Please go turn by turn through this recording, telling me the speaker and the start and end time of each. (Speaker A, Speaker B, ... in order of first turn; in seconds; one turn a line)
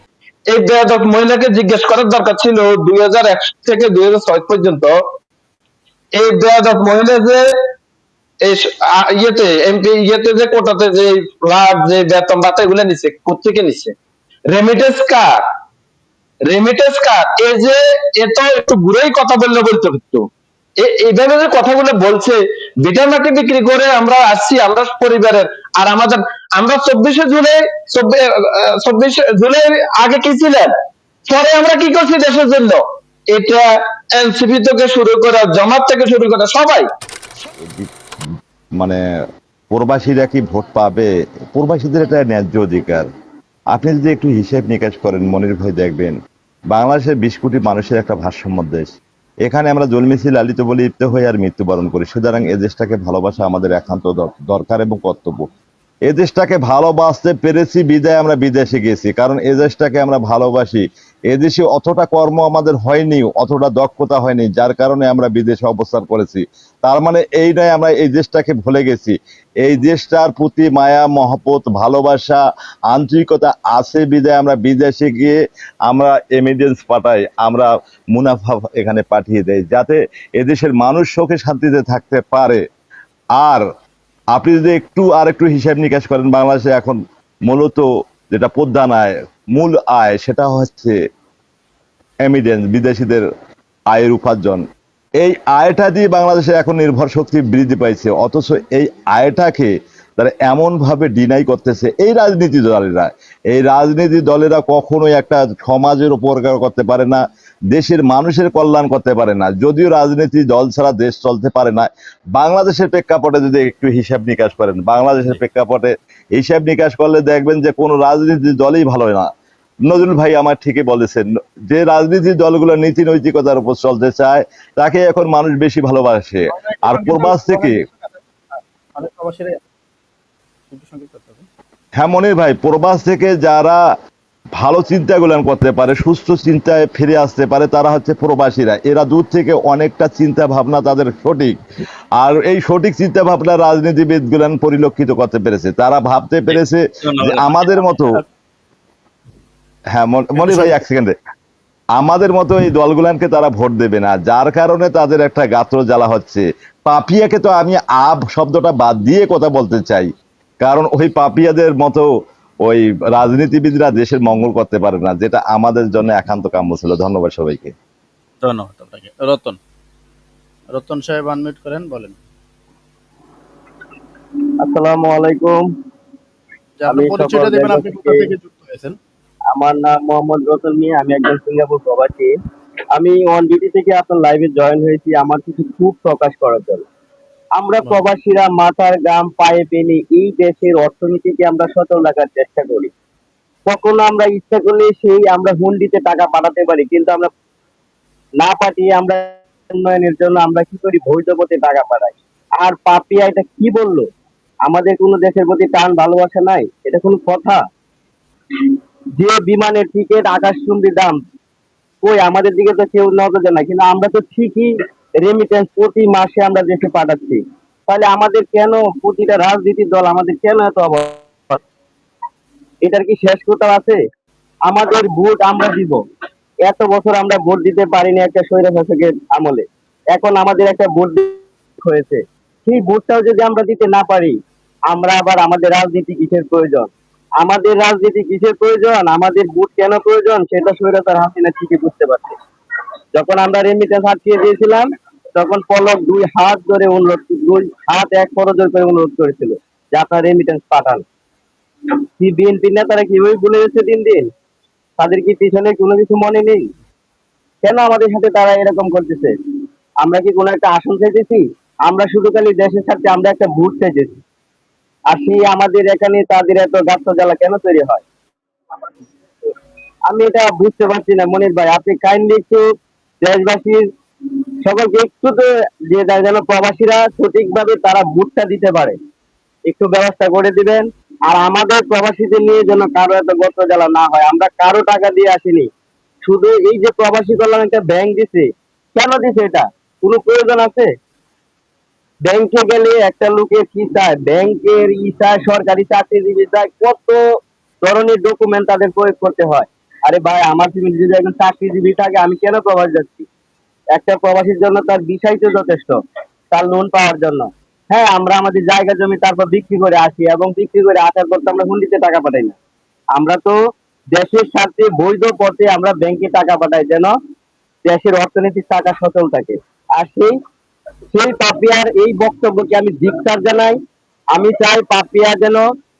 Speaker A: 0.5-5.0
Speaker A: 6.1-7.5
Speaker A: 8.4-13.9
Speaker A: 14.5-15.3
Speaker A: 16.4-20.3
Speaker A: 20.8-30.7
Speaker A: 31.2-36.9
Speaker B: 37.6-37.9
Speaker B: 39.7-43.1
Speaker B: 43.7-46.1
Speaker B: 46.7-48.9
Speaker B: 49.4-55.5
Speaker B: 56.1-82.6
Speaker B: 83.4-83.7
Speaker B: 84.3-91.0
Speaker B: 92.2-93.2
Speaker B: 93.9-94.6
Speaker B: 95.2-107.2
Speaker B: 107.7-119.3
Speaker B: 119.8-127.8
Speaker C: 126.6-128.1
Speaker C: 128.9-129.6
Speaker C: 130.7-131.4
Speaker B: 131.9-133.8
Speaker B: 134.6-141.6
Speaker B: 142.2-148.2
Speaker C: 147.1-147.9
Speaker B: 149.9-151.1
Speaker C: 150.4-150.7
Speaker B: 151.9-160.1
Speaker B: 160.6-162.1
Speaker B: 162.6-167.7
Speaker C: 168.4-169.6
Speaker C: 170.7-172.2
Speaker D: 174.6-175.6
Speaker C: 176.8-179.0
Speaker D: 176.9-178.3
Speaker D: 179.5-182.3
Speaker D: 182.9-186.8
Speaker D: 187.6-192.9
Speaker D: 193.7-197.3
Speaker D: 198.4-204.1
Speaker D: 204.7-207.6
Speaker D: 209.2-211.2
Speaker D: 212.0-221.6
Speaker D: 222.8-224.0
Speaker D: 224.7-226.0
Speaker D: 226.6-234.3
Speaker D: 234.9-242.3
Speaker D: 243.1-244.8
Speaker D: 245.4-251.0
Speaker D: 252.2-254.2
Speaker D: 255.0-256.6
Speaker D: 257.6-259.3
Speaker D: 260.0-264.2
Speaker D: 265.1-268.0
Speaker D: 270.1-272.6
Speaker D: 273.2-273.8
Speaker D: 274.6-278.9
Speaker D: 279.7-285.7
Speaker D: 286.2-290.9
Speaker D: 292.2-297.2
Speaker D: 297.8-303.2
Speaker D: 303.9-306.0
Speaker D: 306.5-312.6
Speaker D: 313.1-313.6
Speaker D: 314.1-317.1
Speaker D: 317.8-320.3
Speaker D: 321.1-323.8
Speaker D: 324.3-325.6